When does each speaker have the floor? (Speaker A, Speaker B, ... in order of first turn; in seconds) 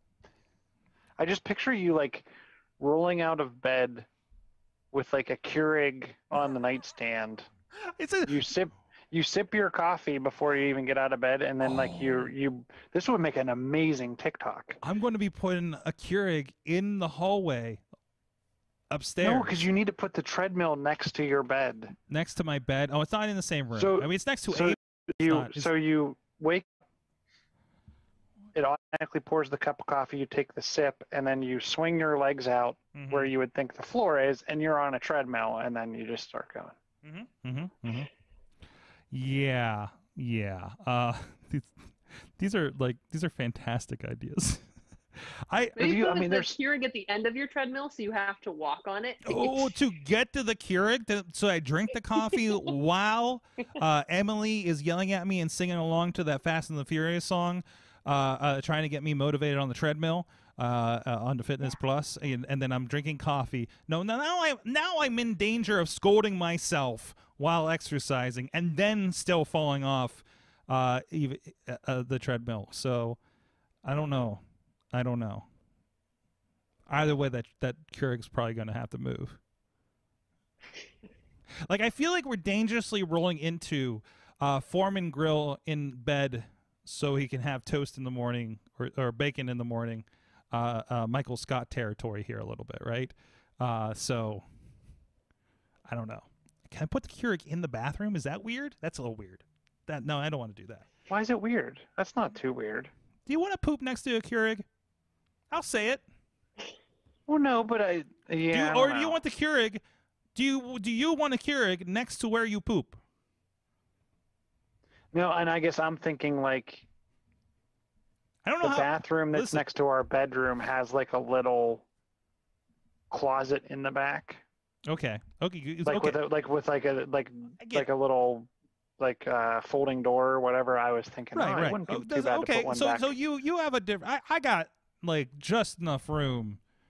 Speaker A: 1.2-4.1, 4.9-7.5, 8.2-14.8, 19.2-21.9, 23.7-26.7, 28.5-36.7, 45.8-46.5, 101.1-102.9, 107.3-109.2, 115.1-116.9, 118.6-121.8, 123.1-124.4, 125.8-128.5, 129.0-133.2
Speaker B: 8.0-8.3, 11.6-12.3, 14.8-17.8, 18.9-19.6, 22.1-25.7, 32.9-33.3, 37.0-38.1, 39.1-44.6, 45.1-45.8, 49.2-73.2, 73.8-74.4, 74.9-75.5, 76.9-79.4, 81.7-94.4, 95.9-100.8, 103.3-104.7, 105.5-106.0, 108.5-109.8, 110.3-113.0, 118.4-119.6, 124.9-126.2, 127.6-127.9, 131.3-136.6
Speaker C: 45.8-49.7